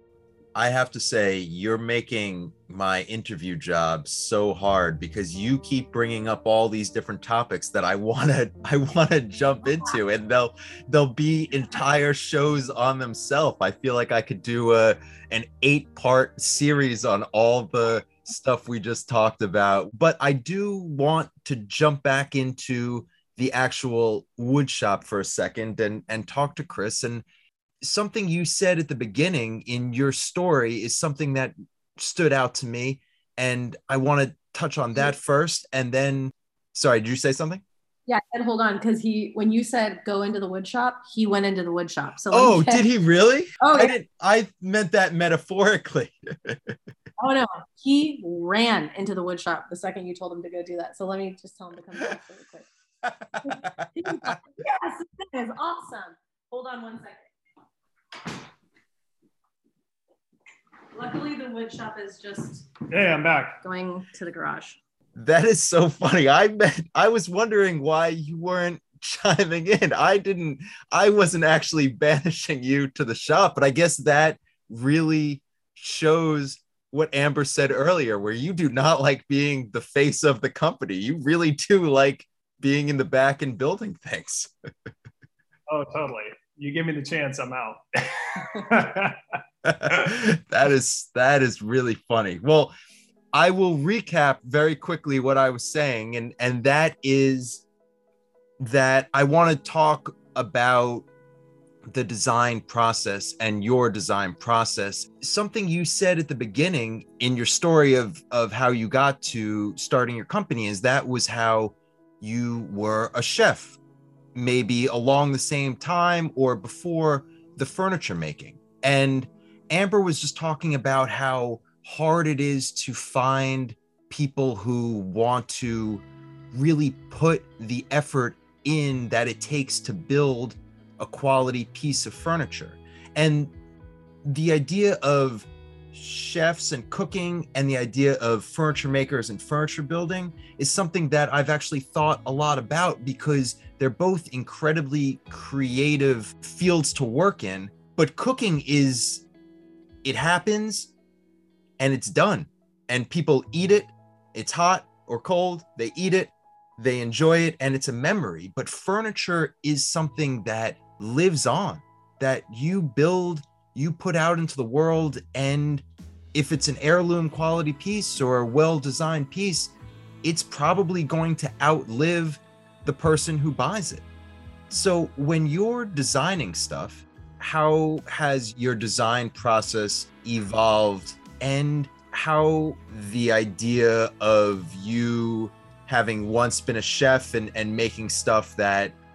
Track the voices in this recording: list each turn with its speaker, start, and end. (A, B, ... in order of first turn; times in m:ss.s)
0:00.5-0:27.2 A
0:27.8-0:37.6 A
0:38.1-0:42.8 B
0:42.3-0:46.8 A
0:43.6-0:43.9 B
0:47.2-0:52.7 B
0:53.3-0:53.7 A
0:53.4-0:57.3 B
1:00.9-1:02.7 B
1:02.9-1:03.6 C
1:03.6-1:04.8 B
1:05.2-1:24.9 A
1:25.7-1:29.4 C
1:29.6-1:32.7 A
1:33.3-1:37.6 A
1:38.6-1:41.1 A
1:41.9-1:53.8 A
1:54.3-2:13.5 A
2:14.2-2:29.2 A
2:30.0-2:30.9 A
2:31.8-2:49.7 A
2:50.2-2:54.0 A
2:54.7-3:08.9 A